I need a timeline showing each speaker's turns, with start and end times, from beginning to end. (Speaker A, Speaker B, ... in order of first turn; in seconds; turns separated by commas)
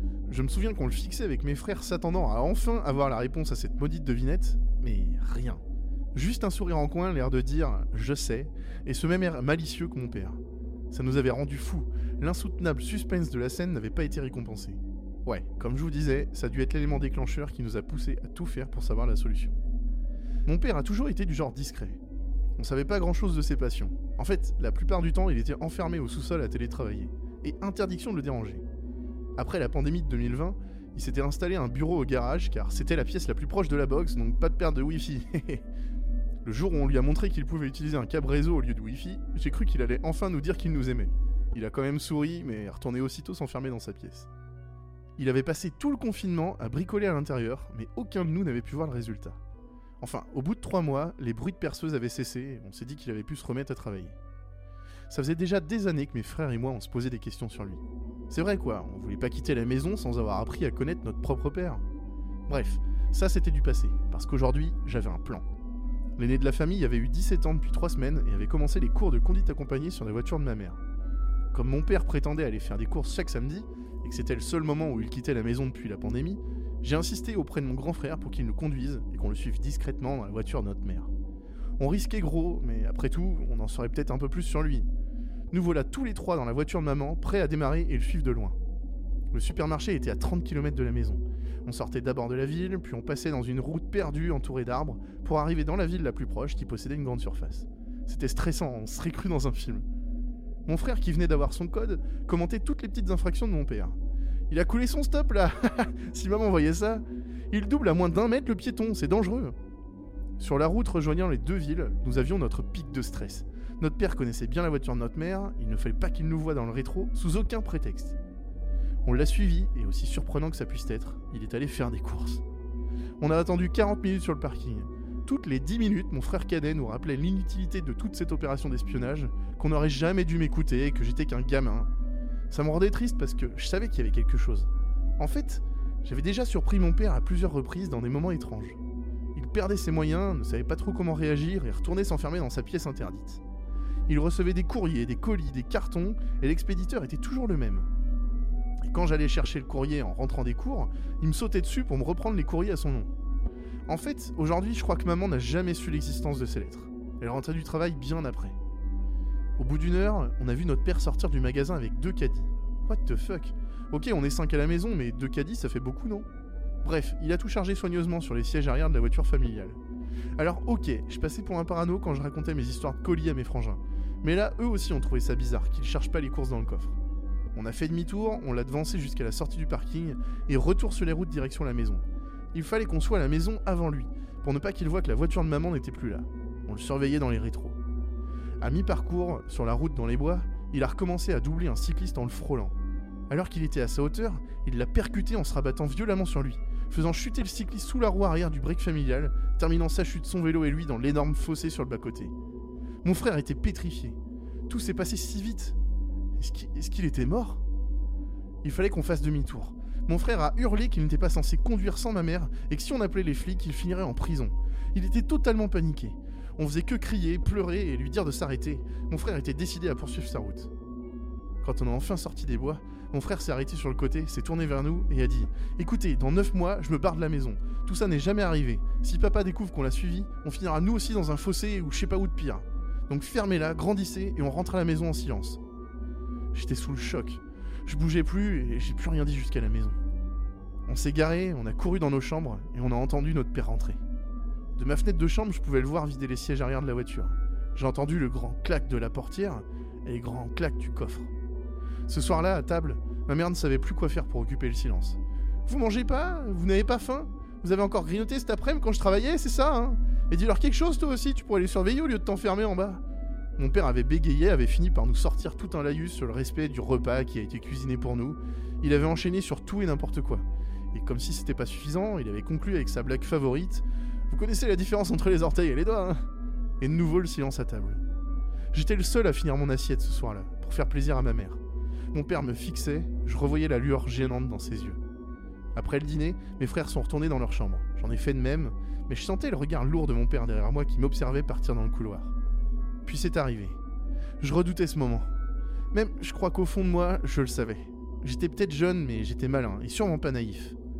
Speaker A: 0.3-5.6, Speaker A: 6.1-10.4, Speaker A: 10.9-19.6, Speaker A: 20.5-22.0, Speaker A: 22.6-28.6, Speaker A: 29.4-35.6, Speaker A: 36.4-44.3, Speaker A: 45.2-49.4, Speaker A: 50.0-54.1, Speaker A: 55.1-61.8, Speaker A: 62.5-65.4, Speaker A: 66.2-70.8, Speaker A: 71.5-81.1, Speaker A: 81.8-84.9, Speaker A: 85.5-88.5, Speaker A: 89.3-99.8, Speaker A: 100.7-104.0, Speaker A: 104.5-109.5, Speaker A: 110.4-118.2, Speaker A: 119.0-122.4, Speaker A: 123.2-131.9, Speaker A: 132.5-138.8, Speaker A: 139.3-143.4, Speaker A: 144.1-147.9, Speaker A: 148.8-153.1, Speaker A: 153.9-158.6, Speaker A: 159.6-166.3, Speaker A: 166.8-169.8, Speaker A: 170.4-176.9, Speaker A: 177.5-187.8, Speaker A: 188.6-192.8, Speaker A: 193.3-202.3, Speaker A: 203.0-204.2, Speaker A: 204.7-205.8, Speaker A: 206.4-207.6, Speaker A: 208.6-220.7, Speaker A: 221.6-235.6, Speaker A: 236.5-239.9, Speaker A: 240.9-244.0, Speaker A: 244.8-251.3, Speaker A: 252.1-263.0, Speaker A: 263.6-276.2, Speaker A: 276.8-278.0, Speaker A: 278.7-281.6, Speaker A: 282.1-285.0, Speaker A: 285.7-292.3, Speaker A: 293.1-293.8, Speaker A: 294.4-295.3, Speaker A: 295.9-300.8